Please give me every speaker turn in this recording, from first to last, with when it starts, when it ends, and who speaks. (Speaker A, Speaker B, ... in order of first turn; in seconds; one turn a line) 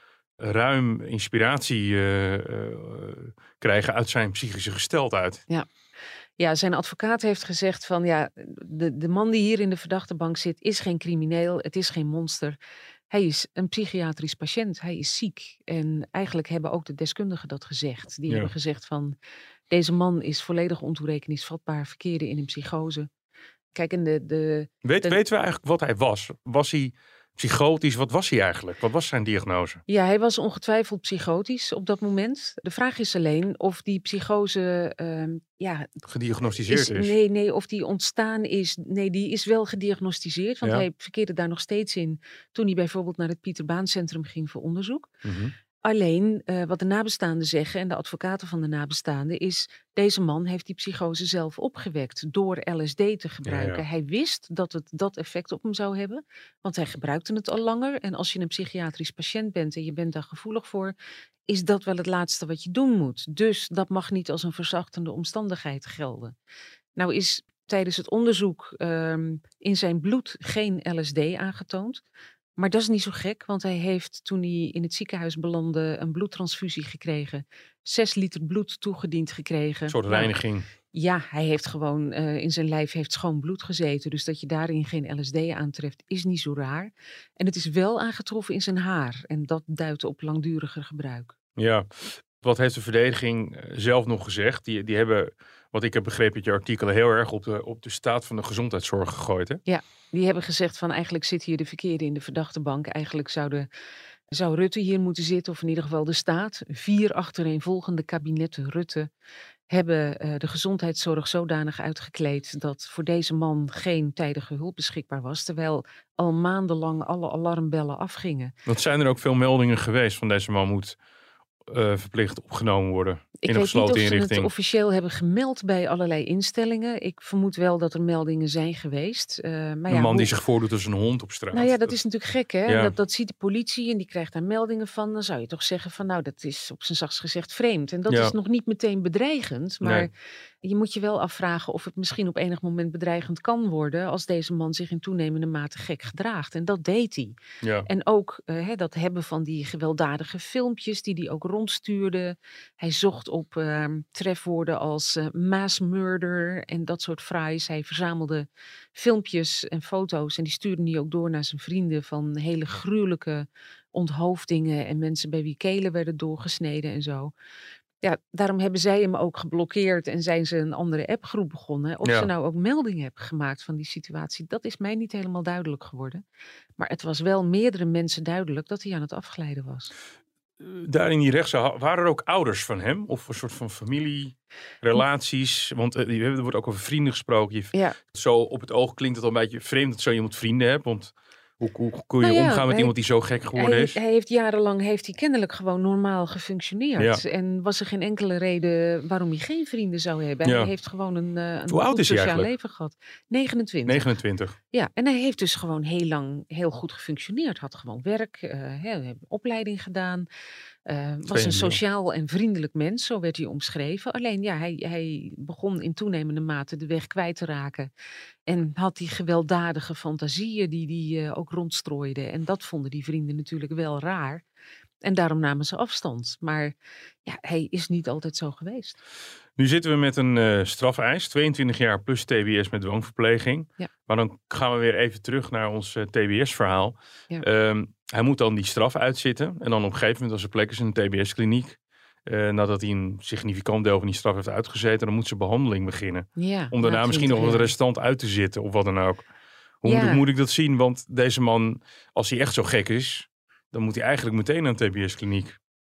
Speaker A: 0.4-5.4
Speaker B: 6.4-12.6
Speaker B: 13.1-19.1
Speaker B: 19.7-23.1
Speaker B: 23.7-25.2
Speaker A: 24.8-29.8
Speaker B: 29.9-36.0
Speaker A: 36.1-37.1
Speaker B: 36.7-45.1
Speaker A: 45.2-45.5
Speaker B: 45.8-60.9
Speaker A: 53.4-53.8
Speaker B: 61.5-66.3
Speaker B: 67.0-72.0
Speaker B: 72.6-80.3
Speaker A: 79.9-80.7
Speaker B: 80.9-91.3
Speaker A: 91.6-99.6
Speaker B: 99.7-103.7
Speaker B: 104.3-109.1
Speaker B: 109.7-118.5
Speaker A: 118.7-121.0
Speaker A: 121.7-124.5
Speaker B: 123.4-130.3
Speaker A: 129.9-131.9
Speaker B: 131.5-140.1
Speaker A: 132.7-132.9
Speaker A: 138.1-138.3
Speaker B: 140.6-167.3
Speaker A: 147.6-147.9
Speaker B: 168.0-176.2
Speaker A: 172.0-172.3
Speaker B: 176.8-179.9
Speaker A: 180.6-194.0
Speaker B: 192.2-192.9
Speaker B: 193.5-204.1
Speaker A: 197.0-197.2
Speaker A: 200.4-200.7
Speaker A: 201.7-202.5
Speaker A: 203.8-204.6
Speaker B: 204.7-210.2
Speaker B: 210.8-217.9
Speaker A: 211.3-211.8
Speaker B: 218.5-224.4
Speaker B: 225.0-226.7
Speaker B: 227.2-229.0
Speaker A: 229.6-249.2
Speaker B: 246.4-247.7
Speaker A: 249.8-255.6
Speaker B: 249.8-250.2